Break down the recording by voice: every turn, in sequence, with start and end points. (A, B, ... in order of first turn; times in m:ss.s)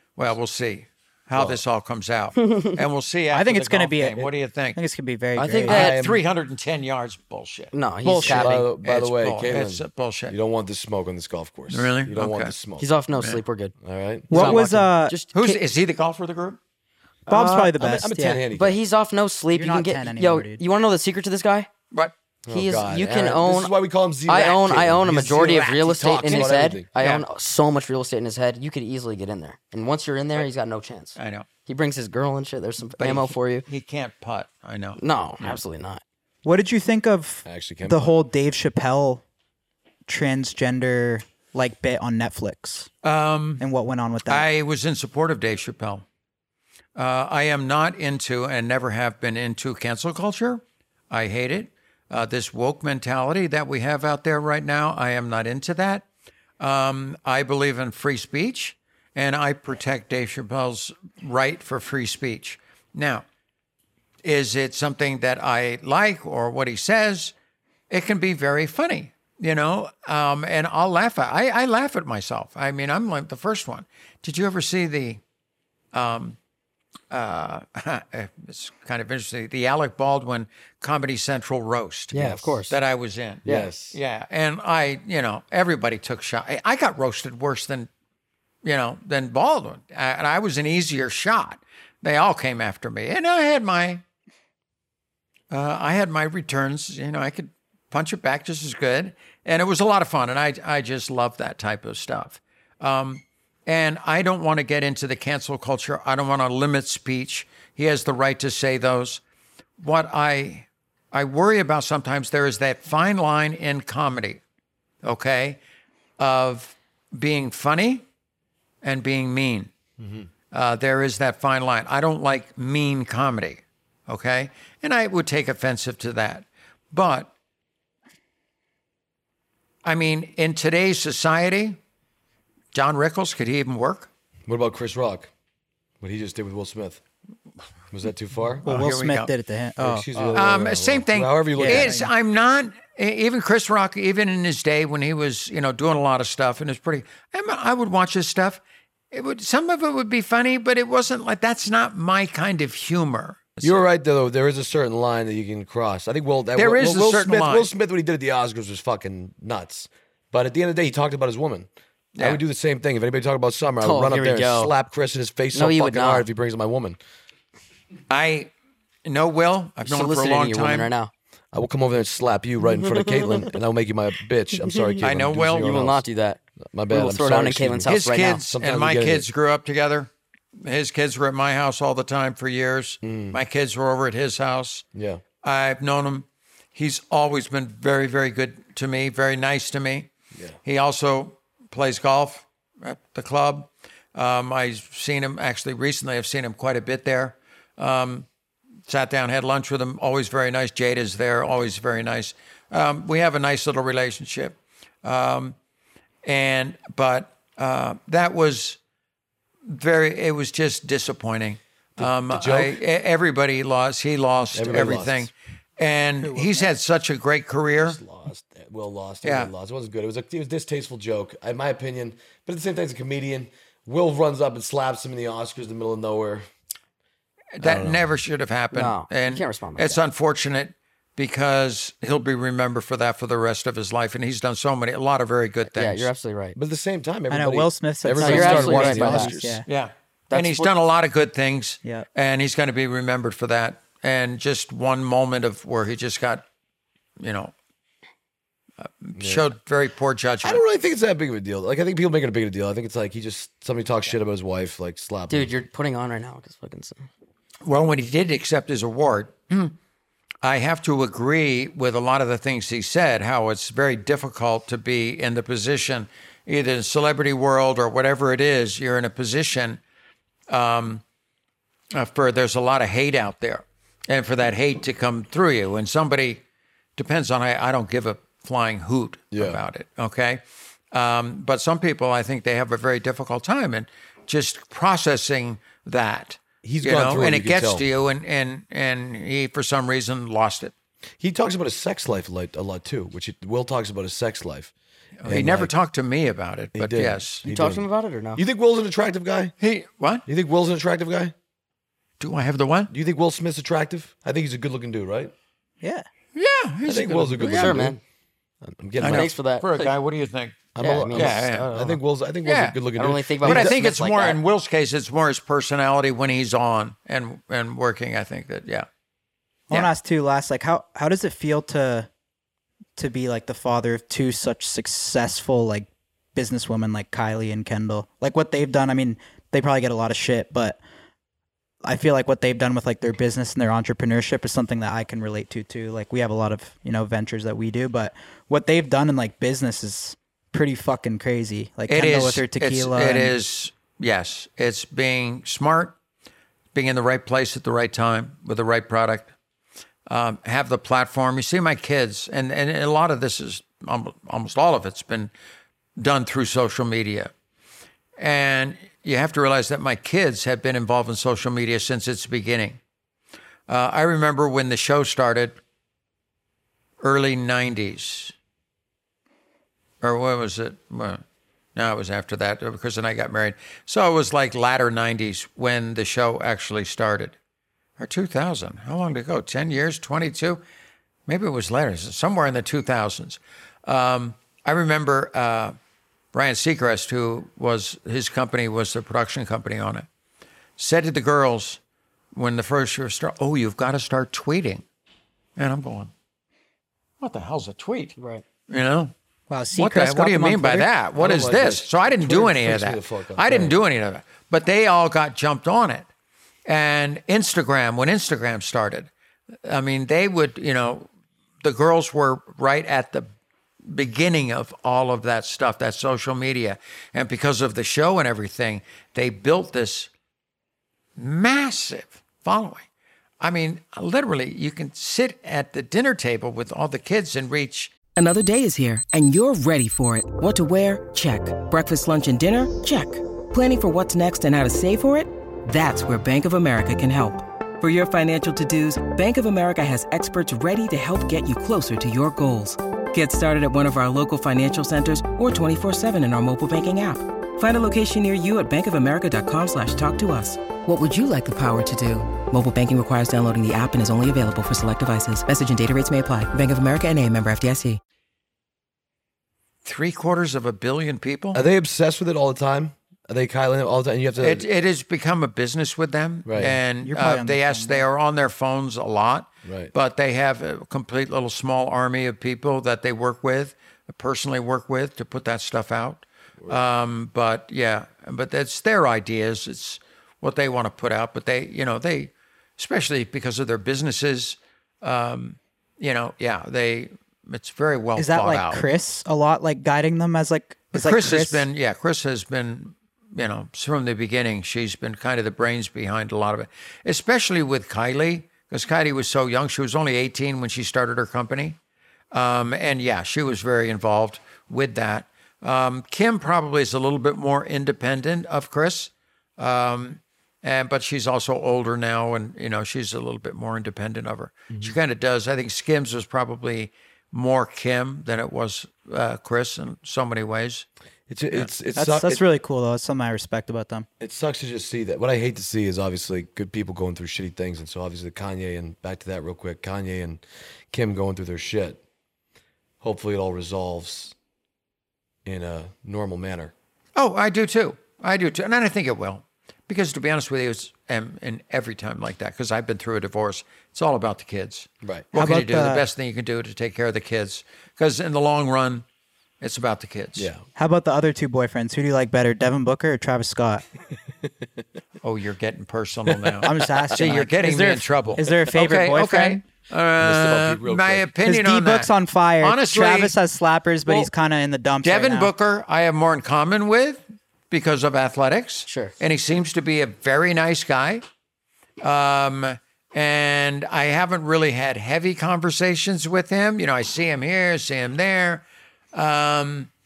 0:00.2-0:04.8 A
0:01.3-0:01.6 B
0:02.4-0:02.7 C
0:03.3-0:05.9 D
0:05.4-0:06.0 C
0:05.7-0:06.2 B
0:05.8-0:07.7 A
0:07.7-0:08.7 C
0:08.0-0:08.4 D
0:08.2-0:12.9 B
0:08.8-0:10.4 A
0:11.7-0:12.5 A
0:12.8-0:13.8 C
0:13.2-0:13.4 A
0:13.8-0:14.6 B
0:14.3-0:15.2 D
0:14.3-0:15.6 C
0:14.3-0:14.6 A
0:15.3-0:16.6 A
0:17.3-0:18.4 D
0:17.3-0:18.8 B
0:18.5-0:21.7 C
0:19.5-0:20.6 D
0:22.5-0:26.9 B
0:22.5-0:23.7 C
0:24.3-0:33.6 C
0:26.2-0:27.2 A
0:31.2-0:31.5 A
0:33.0-0:35.6 A
0:35.0-0:36.0 C
0:36.4-0:39.2 D
0:37.4-0:38.1 B
0:40.1-0:42.9 D
0:43.0-0:43.6 A
0:43.6-0:44.5 D
0:44.3-0:46.0 A
0:47.0-0:56.1 A
0:56.6-1:03.2 A
1:04.2-1:07.3 A
1:07.9-1:15.2 A
1:15.9-1:16.4 A
1:17.1-1:27.9 A
1:22.1-1:22.8 C
1:22.2-1:22.5 B
1:23.4-1:23.7 C
1:23.4-1:24.0 B
1:28.6-1:34.0 A
1:35.5-1:49.2 A
1:49.8-1:54.4 A
1:55.0-1:55.6 A
1:56.2-1:58.0 A
1:58.8-1:59.7 A
2:00.0-2:00.3 B
2:00.5-2:07.3 A
2:09.8-2:11.8 A
2:12.7-2:14.1 A
2:14.5-2:15.3 B
2:16.0-2:17.0 B
2:17.9-2:18.6 B
2:18.6-2:19.3 A
2:18.6-2:20.1 D
2:19.8-2:22.1 B
2:20.2-2:28.6 A
2:21.6-2:22.1 D
2:29.1-2:33.8 A
2:33.6-2:47.0 B
2:36.6-2:37.7 A
2:43.8-2:44.7 C
2:45.5-2:46.3 C
2:48.1-2:48.5 A
2:49.1-2:50.9 A
2:49.8-2:51.1 C
2:51.5-2:56.0 B
2:52.7-2:53.5 C
2:54.5-2:55.0 C
2:55.0-2:55.7 A
2:55.6-2:58.4 C
2:56.7-2:59.3 B
2:57.9-3:00.1 A
3:00.6-3:04.8 A
3:03.0-3:03.4 B
3:04.9-3:05.2 B
3:05.4-3:10.1 A
3:10.6-3:18.3 A
3:18.9-3:25.6 A
3:26.2-3:28.8 A
3:29.7-3:38.0 A
3:32.0-3:32.8 B
3:34.5-3:35.3 B
3:36.2-3:36.7 D
3:37.8-3:46.5 B
3:39.2-3:39.5 A
3:47.6-3:56.1 A
3:47.6-3:48.1 B
3:48.7-3:50.0 C
3:55.7-3:56.6 C
3:56.6-3:59.6 B
3:57.3-3:59.7 D
3:58.2-3:59.4 C
3:59.7-4:06.4 A
4:00.3-4:00.7 C
4:07.2-4:07.5 A
4:08.8-4:10.6 A
4:09.2-4:09.5 B
4:10.4-4:15.5 B
4:15.3-4:17.1 C
4:17.6-4:19.8 A
4:20.4-4:29.8 A
4:30.5-4:31.0 A
4:31.9-4:36.4 A
4:37.0-4:50.7 A
4:39.3-4:39.6 B
4:46.6-4:47.8 B
4:51.2-4:54.7 B
4:55.2-4:57.4 A
4:55.3-4:55.7 B
4:56.7-4:59.5 B
4:57.5-4:58.4 C
4:59.6-5:00.2 A
5:00.3-5:01.3 B
5:02.2-5:02.9 A
5:02.9-5:05.3 B
5:05.8-5:06.1 D
5:06.4-5:07.9 A
5:06.8-5:08.0 B
5:07.4-5:08.0 C
5:08.6-5:09.3 B
5:09.0-5:11.7 A
5:09.0-5:09.9 C
5:10.8-5:13.8 B
5:10.8-5:12.0 C
5:12.4-5:12.8 A
5:13.0-5:14.4 C
5:13.4-5:18.9 A
5:19.7-5:22.1 D
5:23.0-5:30.8 D
5:31.8-5:43.4 D
5:41.9-5:46.0 A
5:46.7-5:49.3 A
5:50.1-5:55.3 A
5:56.0-5:57.3 A
5:58.2-6:02.8 A
6:03.7-6:05.6 A
6:07.0-6:08.3 A
6:10.0-6:11.2 A
6:11.8-6:17.4 A
6:18.0-6:20.6 A
6:21.3-6:25.8 A
6:26.3-6:30.1 A
6:30.8-6:31.8 A
6:32.3-6:34.8 A
6:35.6-6:36.1 A
6:37.2-6:38.2 A
6:38.2-6:38.4 C
6:38.7-6:39.1 A
6:39.5-6:40.9 D
6:39.8-6:46.1 A
6:41.2-6:43.8 B
6:46.7-6:49.1 A
6:49.6-6:51.1 A
6:51.6-6:53.3 A
6:53.9-7:00.1 A
7:01.2-7:02.8 A
7:03.4-7:07.9 A
7:08.2-7:38.0 E
7:39.8-7:41.6 A
7:41.5-7:44.7 B
7:44.4-8:08.8 A
7:46.5-7:46.8 B
7:47.0-7:48.1 D
7:49.6-7:49.9 B
8:08.2-8:11.7 D
8:10.9-8:21.8 A
8:22.3-8:40.9 A
8:41.3-8:42.4 B
8:42.0-8:44.1 D
8:44.2-8:52.0 B
8:53.0-8:54.4 B
8:55.4-8:56.7 B
8:57.2-9:09.0 A
9:05.3-9:06.0 D
9:09.6-9:10.5 A
9:10.4-9:10.7 B
9:10.8-9:13.8 D
9:15.2-9:23.4 A
9:16.3-9:16.7 B
9:16.6-9:19.6 D
9:20.2-9:21.3 B
9:21.4-9:25.5 D
9:25.0-9:31.2 A
9:28.9-9:29.1 C
9:32.0-9:39.9 A